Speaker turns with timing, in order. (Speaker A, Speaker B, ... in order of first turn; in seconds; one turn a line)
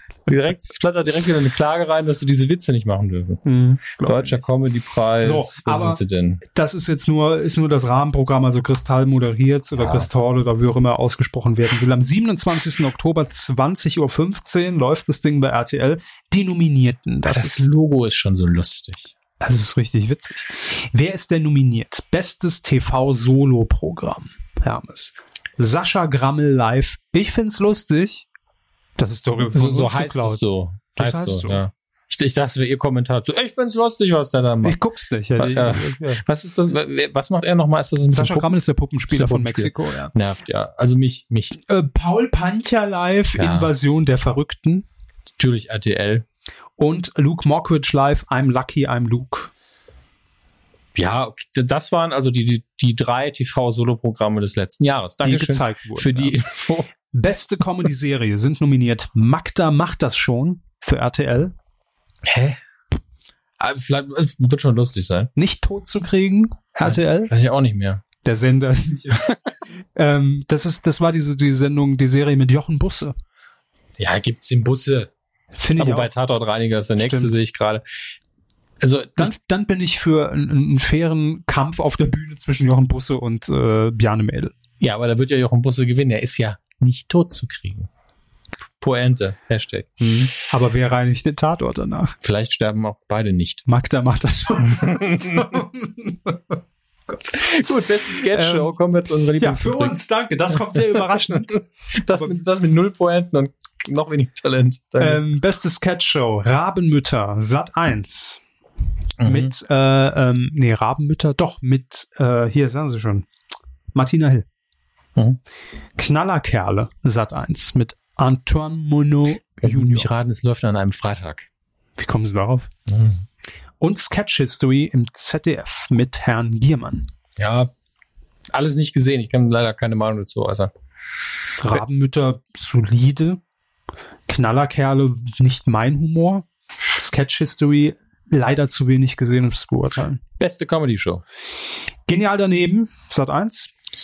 Speaker A: 0.3-3.4
Speaker B: 3.4-4.4
Speaker A: 4.0-6.4
Speaker B: 5.2-17.7
Speaker A: 9.8-10.1
Speaker A: 17.2-19.1
Speaker B: 19.4-28.2
Speaker B: 29.0-30.4
Speaker A: 29.5-34.8
Speaker B: 30.9-31.6
Speaker B: 34.6-36.2
Speaker A: 35.4-38.5
Speaker B: 38.1-40.1
Speaker A: 39.1-41.6
Speaker B: 41.6-44.8
Speaker A: 43.4-43.7
Speaker A: 45.4-46.2
Speaker B: 46.8-49.5
Speaker A: 50.9-56.9
Speaker B: 55.2-56.4
Speaker B: 57.1-61.5
Speaker A: 62.2-62.6
Speaker A: 63.6-65.3
Speaker B: 65.3-67.3
Speaker A: 66.8-68.0
Speaker B: 68.2-73.2
Speaker A: 74.0-75.1
Speaker B: 75.5-76.1
Speaker A: 75.7-77.8
Speaker B: 77.0-77.3
Speaker A: 78.8-79.3
Speaker B: 79.2-84.5
Speaker A: 84.8-87.9
Speaker A: 88.8-90.2
Speaker B: 90.0-92.1
Speaker A: 92.2-93.6
Speaker B: 93.7-96.5
Speaker A: 94.6-95.6
Speaker A: 97.2-100.0
Speaker B: 98.2-98.8
Speaker B: 99.4-101.6
Speaker A: 100.7-105.2
Speaker B: 102.1-102.4
Speaker B: 105.0-108.4
Speaker A: 109.2-109.5
Speaker B: 109.2-113.3
Speaker B: 113.9-114.5
Speaker B: 116.0-120.1
Speaker A: 119.6-121.5
Speaker B: 122.0-122.7
Speaker A: 122.9-123.2
Speaker B: 123.8-127.1
Speaker A: 127.4-127.7
Speaker A: 128.5-130.7
Speaker B: 131.6-133.4
Speaker B: 134.3-140.2
Speaker A: 140.4-141.2
Speaker B: 142.1-143.7